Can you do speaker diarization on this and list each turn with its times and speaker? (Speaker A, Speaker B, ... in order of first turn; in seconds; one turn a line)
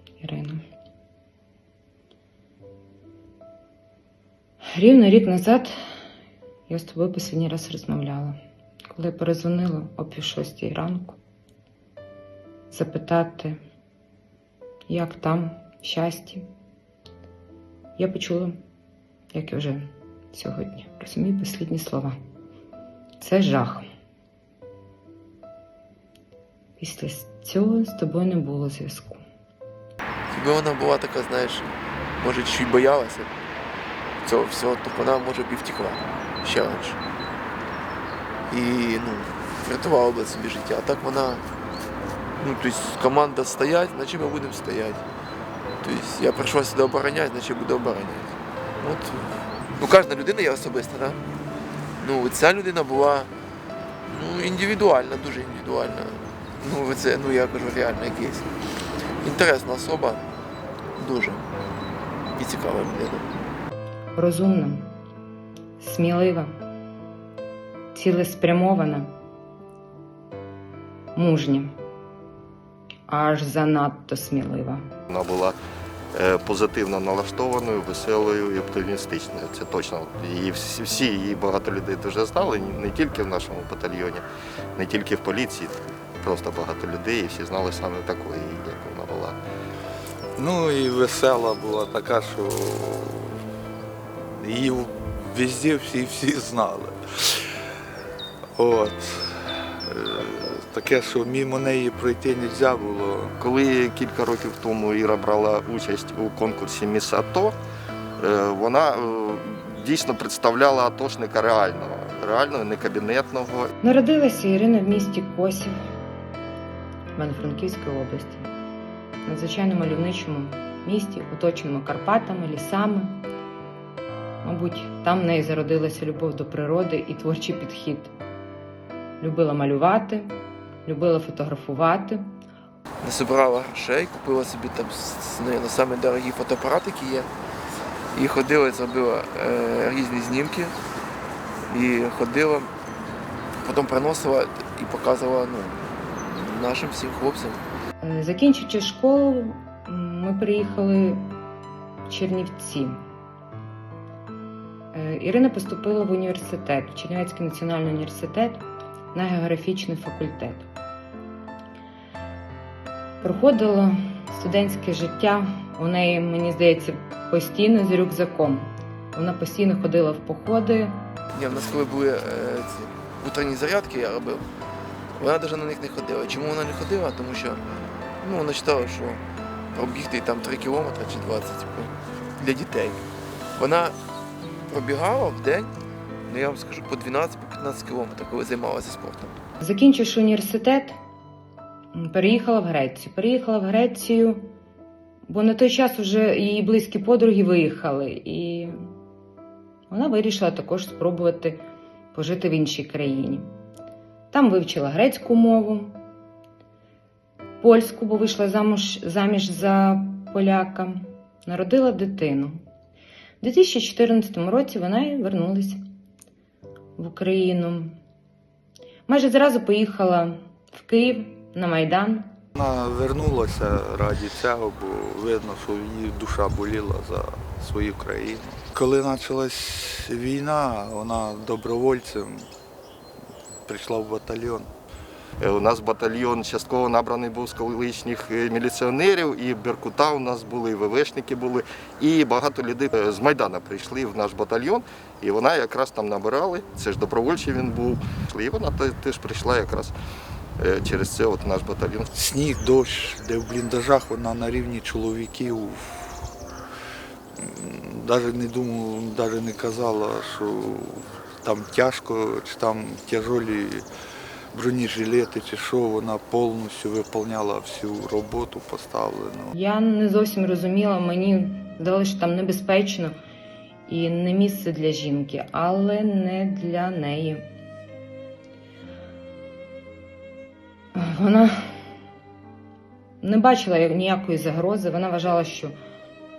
Speaker A: 0.2-0.6
Speaker A: 4.7-5.8
Speaker A: 6.7-8.4
Speaker A: 8.9-11.2
Speaker A: 12.7-13.6
Speaker A: 14.9-16.5
Speaker A: 18.0-18.6
Speaker A: 19.3-22.2
Speaker A: 23.2-23.9
Speaker A: 26.8-29.2
Speaker B: 30.3-33.3
Speaker B: 34.2-37.0
Speaker B: 38.5-41.5
Speaker B: 42.4-45.0
Speaker B: 45.8-49.3
Speaker B: 49.8-51.2
Speaker B: 52.0-53.3
Speaker B: 54.1-58.5
Speaker B: 59.2-60.2
Speaker B: 61.0-61.4
Speaker B: 62.4-63.2
Speaker A: 64.2-64.9
Speaker A: 65.8-66.5
Speaker A: 67.9-69.1
Speaker A: 71.2-71.7
Speaker A: 73.1-74.9
Speaker C: 75.1-75.6
Speaker C: 76.1-89.4
Speaker D: 90.4-93.4
Speaker D: 94.4-97.5
Speaker D: 98.6-103.3
Speaker C: 103.4-107.5
Speaker C: 108.2-113.7
Speaker A: 113.8-115.8
Speaker A: 117.2-118.5
Speaker A: 119.2-123.3
Speaker A: 124.4-128.1
Speaker A: 129.2-132.2
Speaker B: 133.0-137.3
Speaker B: 138.1-140.8
Speaker B: 141.7-142.7
Speaker B: 143.6-147.6
Speaker A: 148.0-151.3
Speaker A: 152.1-153.0
Speaker A: 154.9-160.7
Speaker A: 163.2-171.0
Speaker B: 171.3-174.4
Speaker B: 175.2-177.6
Speaker B: 178.2-179.2
Speaker B: 179.7-183.0
Speaker B: 183.6-184.0
Speaker B: 184.7-185.7
Speaker B: 186.3-189.4
Speaker A: 189.6-191.0
Speaker A: 191.9-194.5
Speaker A: 195.3-198.7
Speaker A: 199.9-201.6
Speaker A: 202.1-203.5
Speaker A: 204.3-206.0
Speaker A: 207.6-212.6
Speaker A: 213.4-215.8
Speaker A: 217.0-218.0
Speaker A: 219.1-222.3
Speaker D: 222.6-232.5
Speaker D: 233.7-234.7
Speaker C: 235.4-249.9
Speaker C: 250.6-252.1
Speaker D: 252.1-256.3
Speaker D: 257.4-263.9
Speaker D: 264.5-269.6
Speaker A: 269.5-273.1
Speaker A: 273.9-277.4
Speaker A: 280.9-281.8
Speaker A: 283.2-285.7